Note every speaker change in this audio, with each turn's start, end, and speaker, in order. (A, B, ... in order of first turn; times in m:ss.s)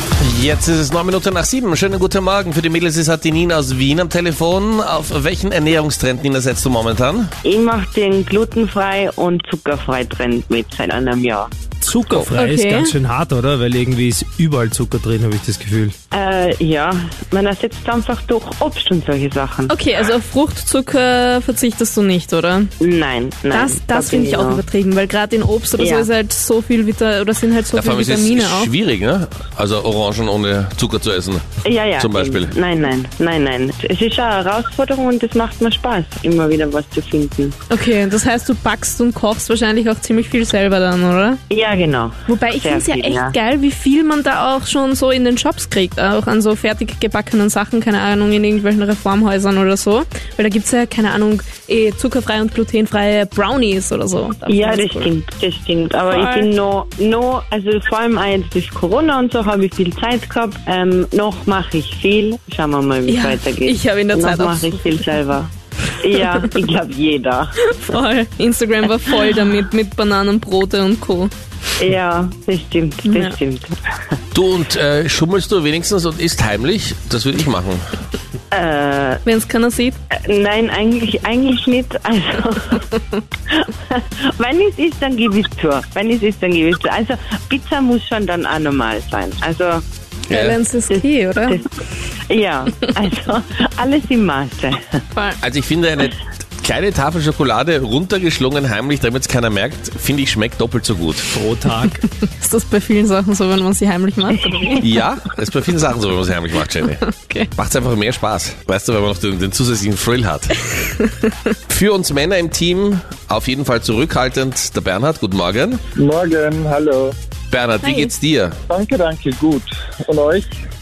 0:00.2-0:07.3 A
0:07.4-0:11.5 B
0:11.8-0:15.9 C
0:12.1-0:12.9 D
0:16.1-0:19.7 B
0:19.7-0:22.7 D
0:22.8-0:24.6 B
0:23.5-0:28.7 D
0:25.8-0:26.1 B
0:27.7-0:31.4 A
0:31.6-0:37.6 B
0:31.9-0:32.5 A
0:37.7-0:41.4 D
0:41.5-0:43.3 B
0:42.3-0:55.1 D
0:54.5-1:07.5 B
0:56.1-0:56.5 D
1:03.1-1:05.0 D
1:07.6-1:11.3 D
1:11.8-1:14.1 B
1:13.1-1:13.4 D
1:14.3-1:17.8 A
1:18.5-1:19.2 B
1:19.2-1:20.0 D
1:20.2-1:22.8 B
1:23.5-1:29.8 B
1:30.3-1:31.6 D
1:30.3-1:30.6 A
1:30.9-1:31.6 B
1:32.3-1:34.8 B
1:35.1-1:35.4 D
1:35.4-1:41.2 A
1:41.3-1:42.0 C
1:42.0-1:45.0 D
1:44.8-1:47.0 A
1:46.8-1:47.5 D
1:47.5-1:50.5 A
1:50.7-1:51.3 D
1:51.7-1:55.8 A
1:56.0-1:57.1 E
1:57.5-1:58.6 A
1:57.8-1:58.1 D
1:58.7-2:00.5 E